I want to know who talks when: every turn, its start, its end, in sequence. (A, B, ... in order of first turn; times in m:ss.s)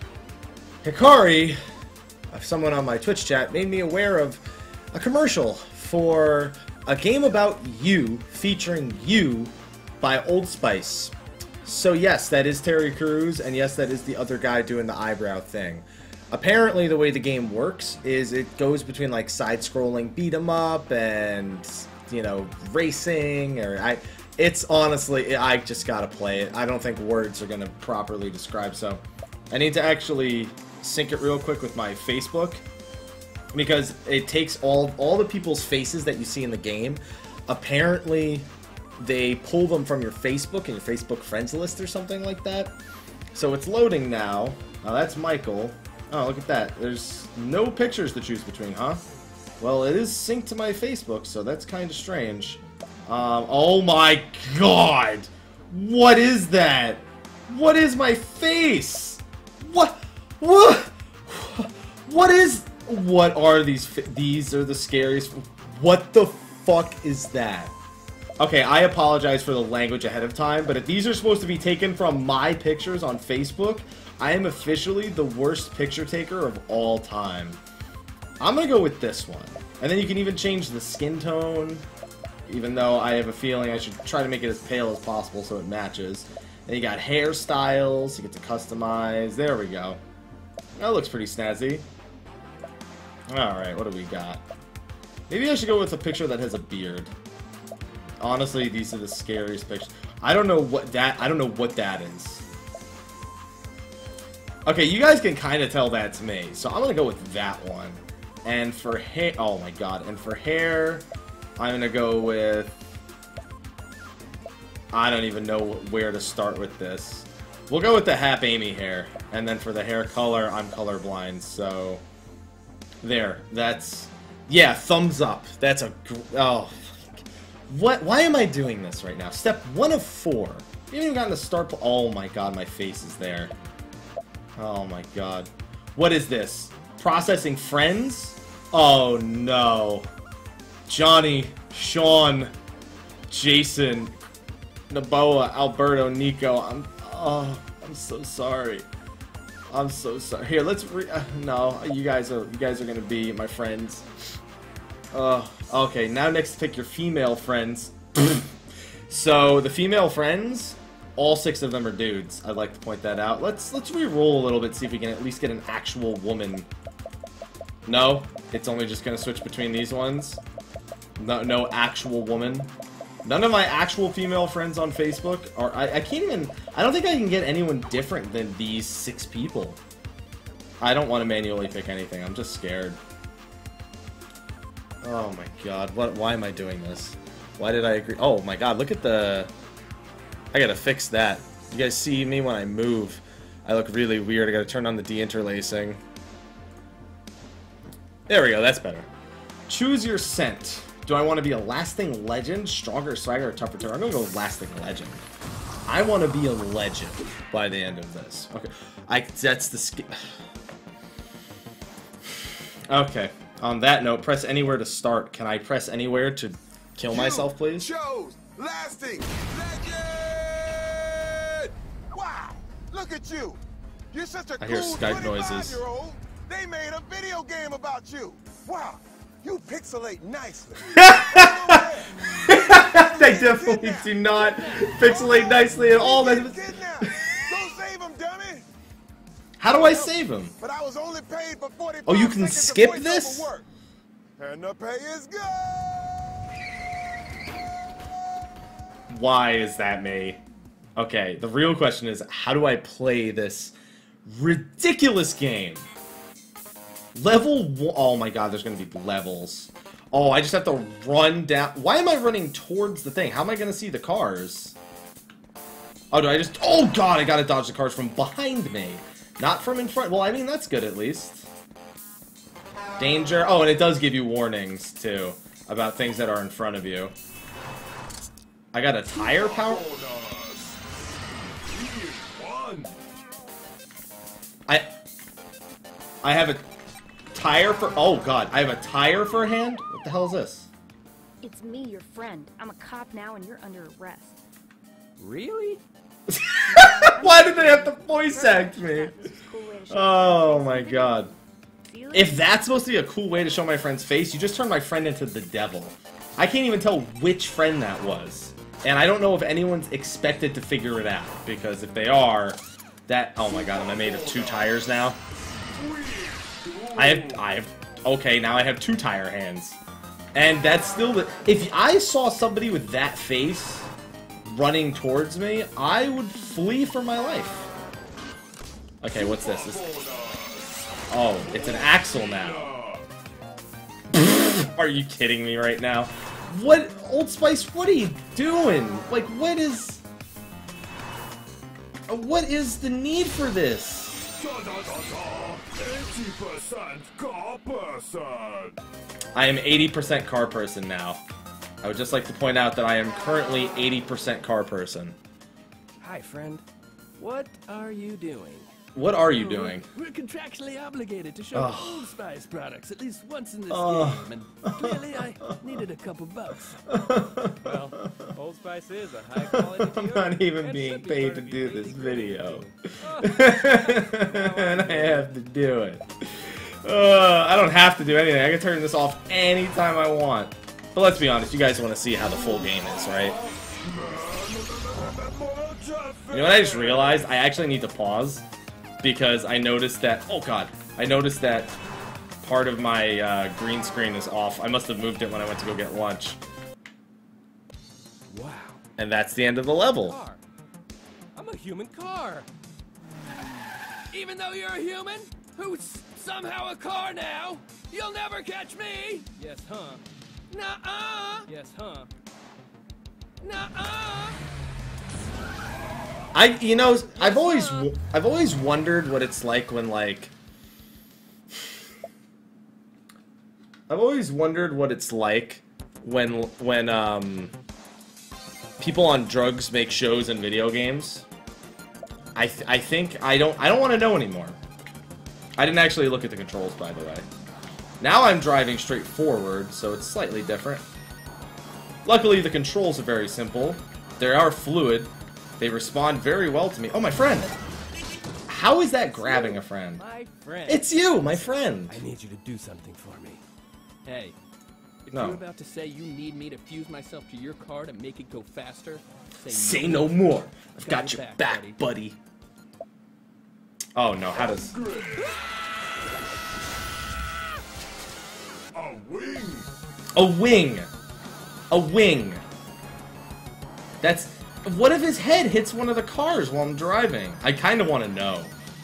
0:00.8-0:01.6 A
0:02.3-0:11.1 A
0:11.6-0:32.6 A
0:33.5-0:38.5 A
0:39.0-0:42.8 A
0:43.3-0:49.0 A
0:49.6-1:07.7 A
1:08.4-1:17.6 A
1:18.4-1:21.8 A
1:22.5-1:30.0 A
1:30.8-1:31.8 A
1:33.3-1:34.4 A
1:35.3-1:37.1 A
1:38.2-1:42.4 A
1:44.7-1:51.0 A
1:51.6-1:52.8 A
1:54.9-2:02.0 A
2:03.0-2:13.5 A
2:14.6-2:20.1 A
2:20.9-2:22.5 A
2:23.3-2:24.2 A
2:24.9-2:28.9 A
2:29.7-2:34.1 A
2:35.1-2:38.5 A
2:39.1-2:46.7 A
2:47.9-2:50.4 A
2:51.2-2:52.7 A
2:53.2-2:59.8 A
3:00.8-3:03.0 A
3:05.0-3:09.5 A
3:10.5-3:16.0 A
3:18.3-3:19.1 A
3:19.7-3:25.2 A
3:25.9-3:30.3 A
3:32.9-3:37.9 A
3:37.1-3:43.6 B
3:44.1-3:58.7 B
3:44.6-3:45.8 A
3:51.0-3:51.8 A
3:52.4-3:56.6 A
3:54.4-3:55.1 C
3:59.6-4:00.6 A
4:00.6-4:03.6 B
4:02.1-4:03.5 A
4:04.4-4:06.1 B
4:09.1-4:10.4 A
4:11.0-4:13.8 A
4:14.3-4:15.9 A
4:17.2-4:24.8 A
4:26.1-4:31.5 A
4:33.0-4:37.1 A
4:38.7-4:39.9 A
4:39.1-4:40.8 D
4:41.7-4:42.9 D
4:46.2-4:46.6 A
4:47.3-4:50.7 A
4:51.4-4:54.4 E
4:55.2-4:55.8 F
4:56.3-4:59.3 A
4:56.7-5:01.3 E
4:59.9-5:01.3 A
5:01.9-5:02.7 E
5:02.1-5:15.2 A
5:13.5-5:14.8 D
5:15.7-5:17.6 D
5:17.0-5:19.8 A
5:20.4-5:23.9 A
5:24.5-5:27.6 A
5:29.0-5:29.9 A
5:29.1-5:30.8 D
5:31.1-5:32.7 A
5:31.4-5:33.1 D
5:34.1-5:40.0 A
5:42.1-5:44.2 A
5:44.3-5:48.8 D
5:49.4-5:51.2 A
5:51.8-5:55.2 A
5:56.0-5:56.6 C
5:57.2-5:58.7 C
5:58.9-5:59.9 A
5:59.3-6:07.0 C
6:01.5-6:02.2 A
6:03.7-6:05.6 A
6:06.9-6:08.3 A
6:07.6-6:12.7 F
6:09.4-6:23.4 A
6:13.0-6:14.3 C
6:14.1-6:15.2 F
6:22.2-6:27.3 D
6:26.3-6:28.4 A
6:29.0-6:31.7 A
6:32.4-6:36.4 A
6:38.3-6:38.8 C
6:39.0-6:40.2 A
6:40.1-6:40.4 C
6:41.4-6:42.5 C
6:44.1-6:51.5 C
6:51.5-6:52.1 F
6:53.4-6:54.4 C
6:56.3-7:00.3 A
6:57.2-6:57.9 C
7:03.9-7:07.5 A
7:08.8-7:11.3 A
7:12.4-7:14.6 A
7:15.6-7:17.3 A
7:18.0-7:20.8 A
7:22.0-7:27.5 A
7:28.5-7:30.0 A
7:29.3-7:33.4 C
7:30.5-7:30.8 F
7:30.7-7:32.0 A
7:34.1-7:34.4 C
7:35.1-7:40.2 C
7:35.1-7:35.4 A
7:39.5-7:42.2 A
7:40.9-7:41.8 C
7:44.0-7:44.8 A
7:44.3-7:45.4 D
7:48.7-7:49.7 D
7:50.2-7:50.9 A
7:51.7-7:52.4 A
7:54.0-7:58.5 A